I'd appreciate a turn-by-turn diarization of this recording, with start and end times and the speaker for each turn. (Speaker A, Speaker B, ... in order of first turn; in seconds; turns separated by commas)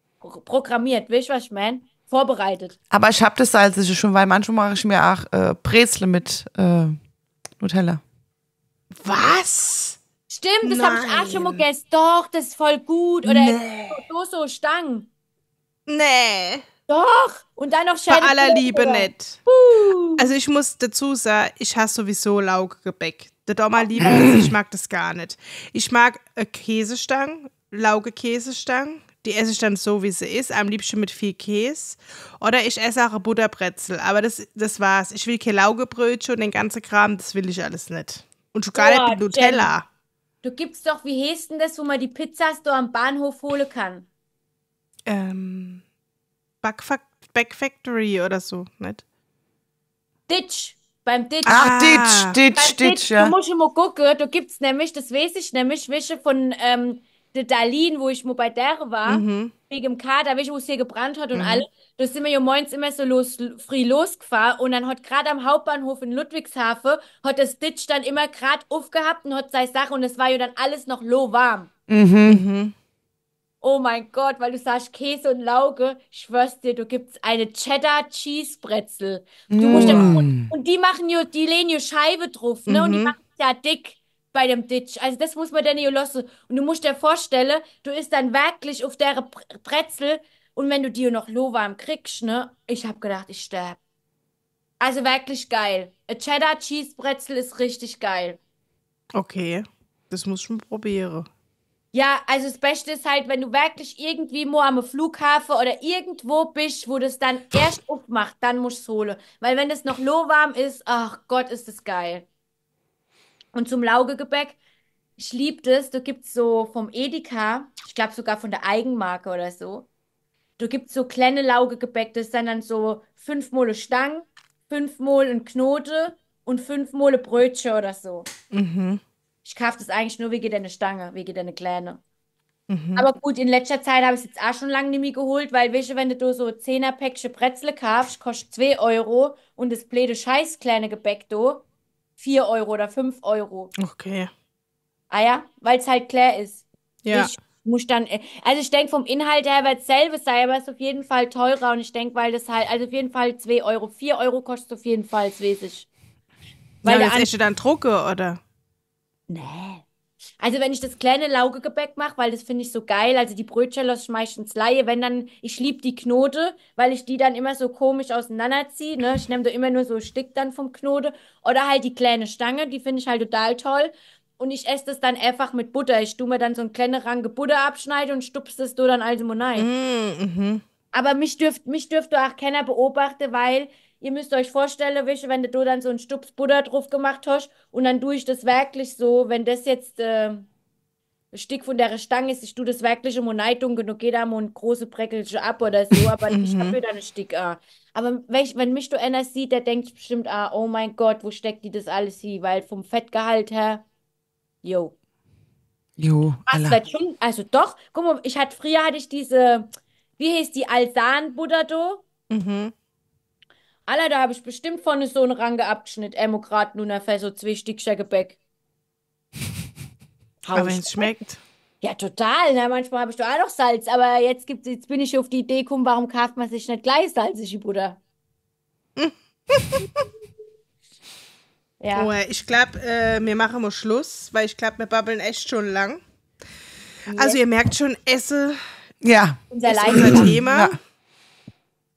Speaker A: 0.2-2.8, Speaker B: 2.9-7.0, Speaker B: 7.6-8.0, Speaker C: 9.0-10.0, Speaker A: 10.3-15.1, Speaker C: 10.6-11.6, Speaker C: 13.2-14.0, Speaker C: 15.9-16.6, Speaker A: 16.9-20.3, Speaker C: 18.1-19.4, Speaker C: 20.2-39.9, Speaker A: 23.8-24.2, Speaker B: 24.1-24.4, Speaker A: 38.8-39.7, Speaker A: 40.4-44.1, Speaker C: 45.1-45.8, Speaker C: 46.6-49.0, Speaker A: 50.3-52.0, Speaker C: 51.5-52.4, Speaker B: 51.5-53.3, Speaker A: 52.5-71.7, Speaker C: 59.1-59.5, Speaker C: 61.3-61.6, Speaker B: 71.9-72.4, Speaker C: 72.2-72.7, Speaker A: 73.6-93.8, Speaker B: 79.5-80.5, Speaker C: 79.7-80.1, Speaker C: 82.7-83.2, Speaker A: 94.8-98.4, Speaker C: 99.1-101.3, Speaker A: 101.9-112.2, Speaker A: 113.5-114.6, Speaker A: 115.2-119.9, Speaker A: 120.6-128.3, Speaker C: 128.5-129.0, Speaker A: 129.4-132.0, Speaker C: 132.7-133.1, Speaker A: 133.0-141.7, Speaker A: 142.2-143.7, Speaker C: 143.8-144.3, Speaker A: 145.1-155.9, Speaker C: 147.0-147.3, Speaker A: 156.8-157.3, Speaker C: 156.8-158.4, Speaker A: 159.3-159.9, Speaker A: 160.4-179.7, Speaker C: 179.6-180.6, Speaker A: 180.9-190.5, Speaker A: 191.3-203.8, Speaker C: 196.3-196.8, Speaker A: 204.6-204.9, Speaker B: 206.0-206.8, Speaker A: 206.5-212.0, Speaker C: 212.3-212.7, Speaker A: 213.9-218.4, Speaker A: 220.4-221.2, Speaker C: 220.5-221.4, Speaker A: 221.8-228.0, Speaker C: 229.0-230.0, Speaker A: 231.8-232.1, Speaker C: 231.9-236.0, Speaker A: 237.1-237.4, Speaker C: 237.1-238.6, Speaker B: 239.0-240.8, Speaker A: 239.5-240.3, Speaker C: 239.7-240.8